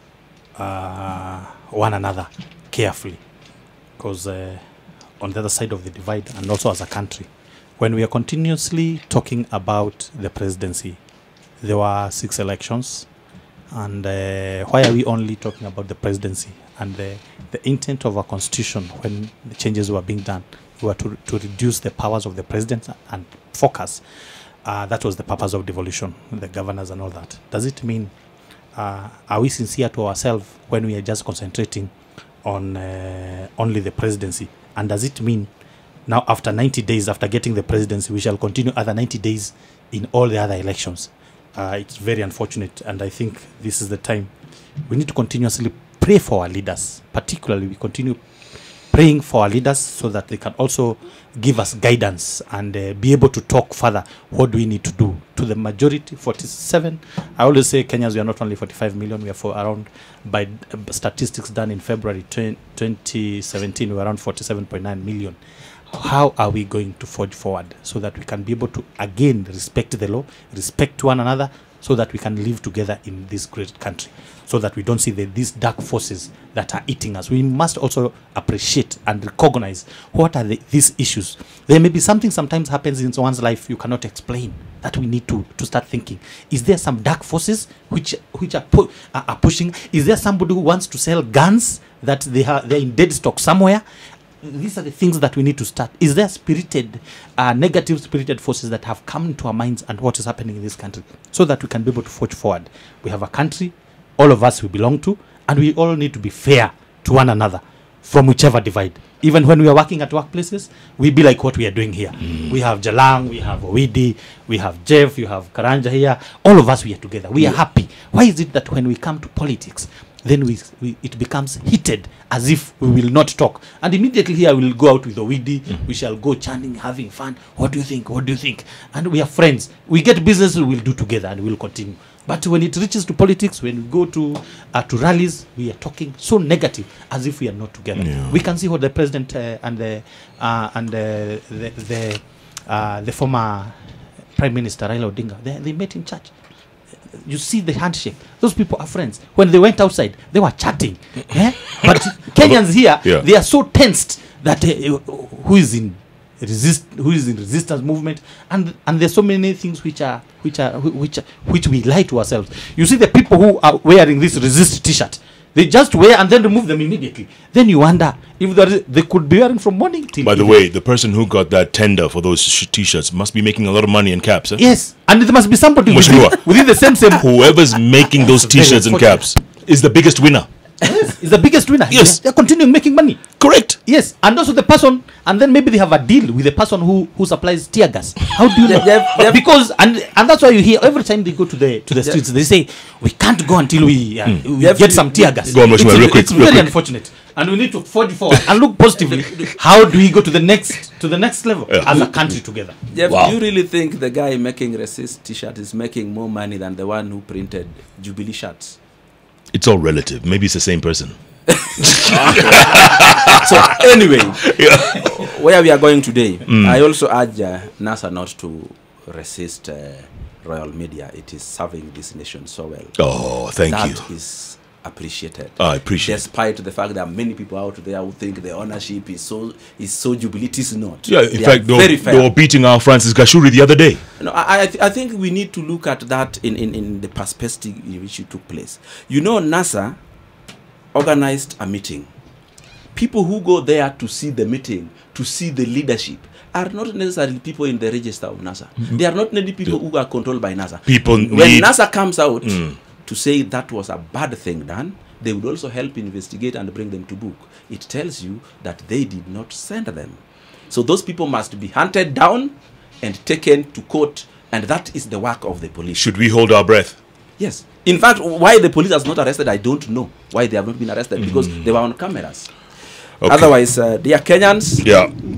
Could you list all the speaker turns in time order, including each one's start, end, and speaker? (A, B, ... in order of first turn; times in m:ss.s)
0:00.6-0:03.2 A
0:04.0-0:04.6 A
0:05.2-0:11.0 A
0:11.6-0:13.1 A
0:13.7-0:24.0 A
0:24.6-0:28.1 A
0:28.8-0:31.9 A
0:32.4-0:35.5 A
0:36.1-0:44.3 A
0:44.9-0:48.2 A
0:48.9-1:05.4 A
1:05.9-1:33.8 A
1:34.4-2:23.8 A
2:18.0-2:18.4 B
2:24.4-2:26.3 A
2:27.1-2:50.6 A
2:32.4-2:33.2 B
2:50.2-2:54.6 B
2:54.6-2:57.3 A
2:55.9-3:00.5 B
2:58.2-2:59.3 A
3:00.8-3:03.2 A
3:01.9-3:02.2 B
3:03.4-3:03.8 B
3:03.8-3:22.8 A
3:08.6-3:09.4 C
3:14.6-3:15.8 C
3:15.5-3:16.7 B
3:19.0-3:19.5 C
3:22.9-3:28.8 C
3:29.5-3:31.2 B
3:31.5-3:43.0 C
3:31.8-3:33.8 B
3:34.4-3:35.2 B
3:36.5-3:36.8 B
3:43.0-3:44.0 B
3:43.7-3:52.3 C
3:45.6-3:46.2 B
3:51.1-3:54.0 B
3:54.2-4:00.0 C
4:00.9-4:02.1 C
4:02.9-4:26.0 C
4:10.8-4:11.7 B
4:12.4-4:12.7 B
4:26.0-4:27.0 B
4:27.4-4:32.5 C
4:31.3-4:31.6 B
4:33.2-4:33.5 B
4:33.2-4:34.9 C
4:34.8-4:35.1 B